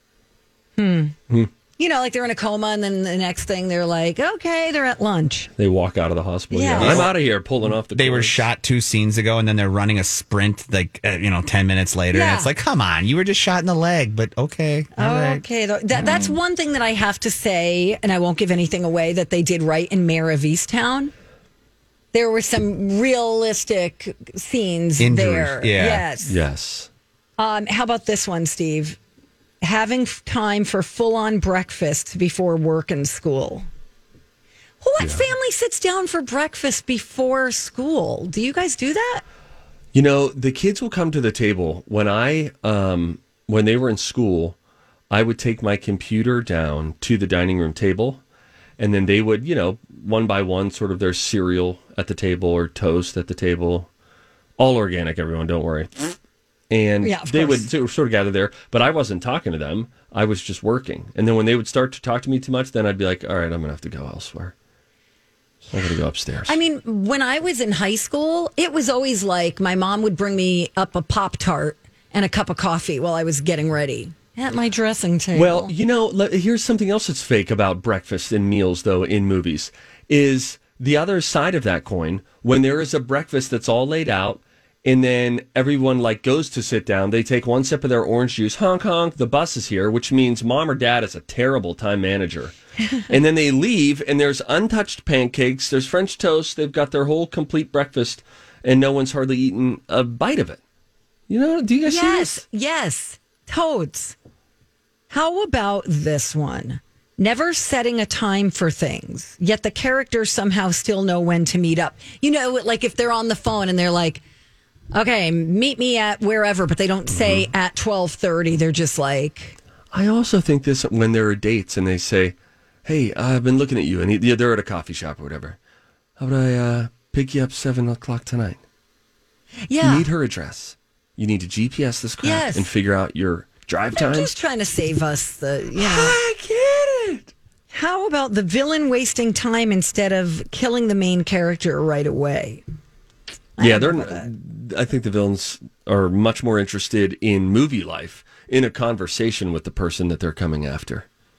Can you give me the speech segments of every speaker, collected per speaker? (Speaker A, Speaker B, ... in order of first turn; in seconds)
Speaker A: 0.8-1.1, 1.8-5.5, 6.5-7.1, 12.1-12.5, 14.9-21.1, 22.1-26.4, 27.4-29.0, 29.6-33.7, 34.8-39.2, 57.0-57.7, 66.5-75.7, 101.8-104.1, 105.1-114.2, 114.9-119.5, 129.7-130.1, 132.2-132.7, 133.9-136.2, 137.7-142.6, 143.6-144.3
Speaker B: 5.6-8.4, 26.2-26.9, 39.9-44.6, 45.1-48.2, 48.8-53.9, 54.6-56.1, 56.7-64.5, 65.7-66.6, 75.3-92.5, 93.1-100.6, 101.3-102.4, 117.1-117.5, 119.9-125.6, 126.2-128.6, 129.8-134.3, 135.8-137.3, 143.6-151.1
Speaker C: 6.8-7.1, 7.9-15.4, 25.0-26.1